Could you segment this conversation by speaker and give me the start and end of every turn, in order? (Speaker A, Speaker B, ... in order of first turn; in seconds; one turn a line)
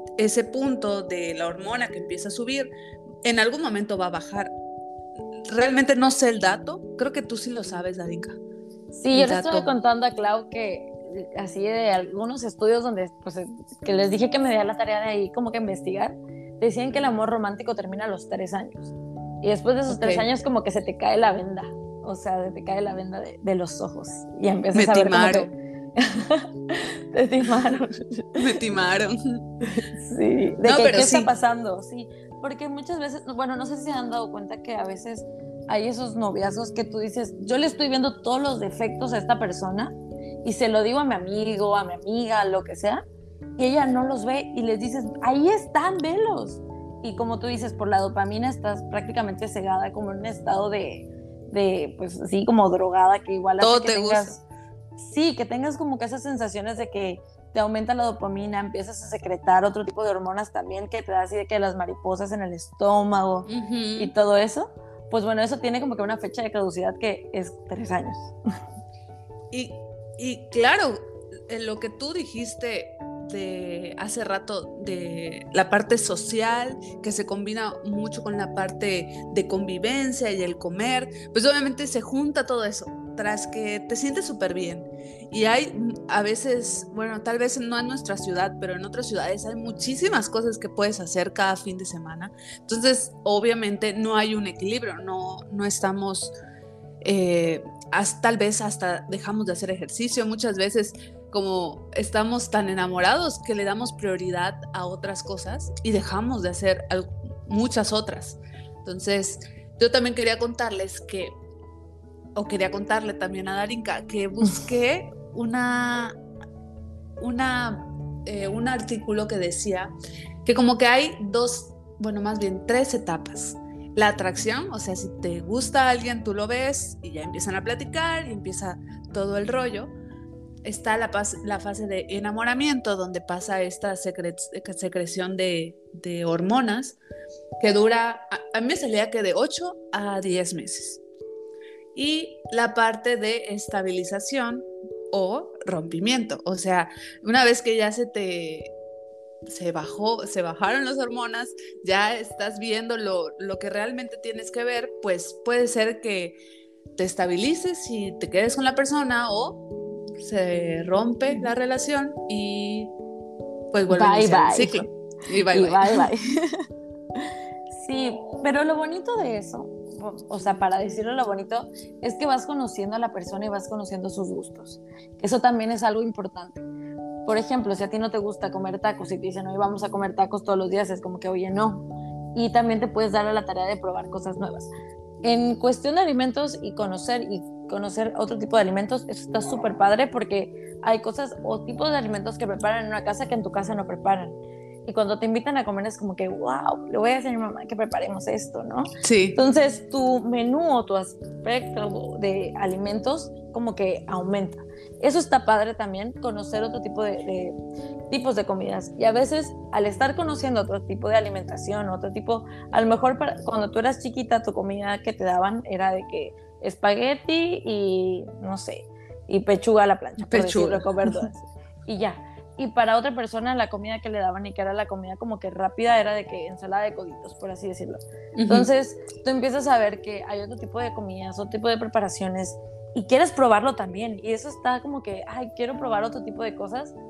Speaker A: 0.2-2.7
Speaker A: 3.2-4.5
Speaker A: 5.5-8.4
Speaker B: 8.9-28.4
Speaker A: 9.1-9.7
Speaker A: 19.9-20.3
Speaker A: 24.8-25.5
Speaker A: 28.4-29.4
Speaker B: 29.6-43.0
Speaker A: 30.6-31.3
Speaker B: 43.6-54.4
Speaker A: 53.6-54.3
Speaker B: 55.0-68.3
Speaker A: 63.5-64.1
Speaker A: 69.5-96.3
Speaker A: 97.0-111.4
Speaker A: 112.4-116.2
Speaker A: 117.2-119.9
Speaker A: 120.5-129.9
Speaker A: 130.7-137.0
Speaker A: 137.6-141.0
Speaker A: 141.9-148.7
Speaker A: 149.5-156.4
Speaker A: 157.0-159.7
Speaker A: 160.2-162.9
Speaker A: 163.7-166.1
Speaker B: 163.9-164.9
Speaker B: 165.5-166.6
Speaker B: 167.7-176.6
Speaker B: 177.3-184.7
Speaker B: 185.2-194.3
Speaker B: 194.9-207.6
Speaker A: 199.0-199.4
Speaker B: 208.1-236.9
Speaker A: 220.2-221.3
Speaker A: 228.4-228.7